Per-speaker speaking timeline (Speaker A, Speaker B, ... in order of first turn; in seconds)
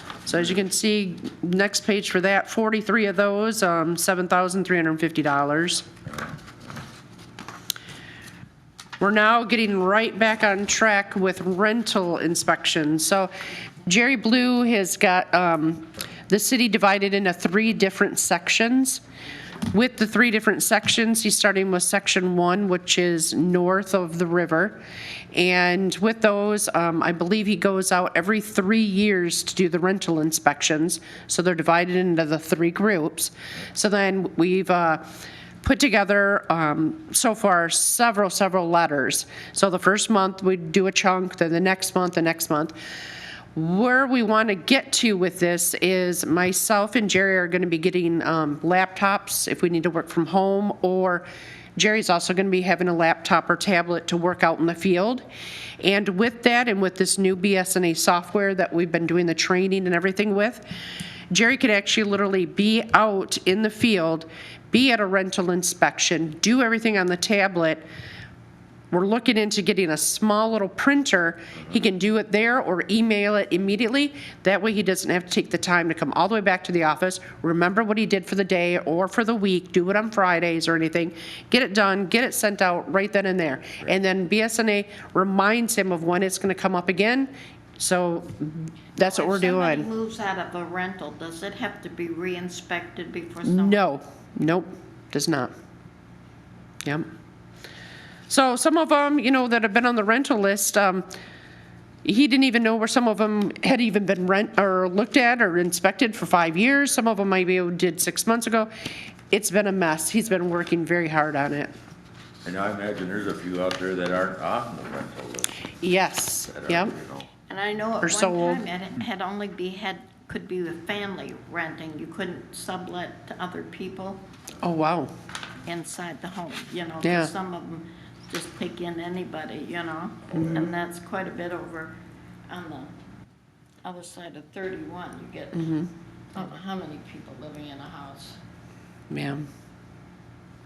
Speaker A: 0.2-5.9, 9.0-13.3, 13.8-19.0, 19.7-24.8, 25.3-35.0, 35.6-42.8, 43.5-51.3, 51.8-55.2, 55.8-60.6, 61.3-67.8, 68.9-89.9, 93.4-95.5, 98.3-101.1, 102.0-108.7, 109.3-111.7, 115.8-117.0, 118.0-118.6, 124.6-125.1, 127.0-127.3, 130.3-130.6, 135.6-135.9, 139.1-139.4
Speaker B: 89.0-93.9, 117.5-124.2, 125.7-131.9, 132.5-132.9, 133.8-135.8, 136.3-138.4
Speaker C: 112.4-115.7, 116.4-117.3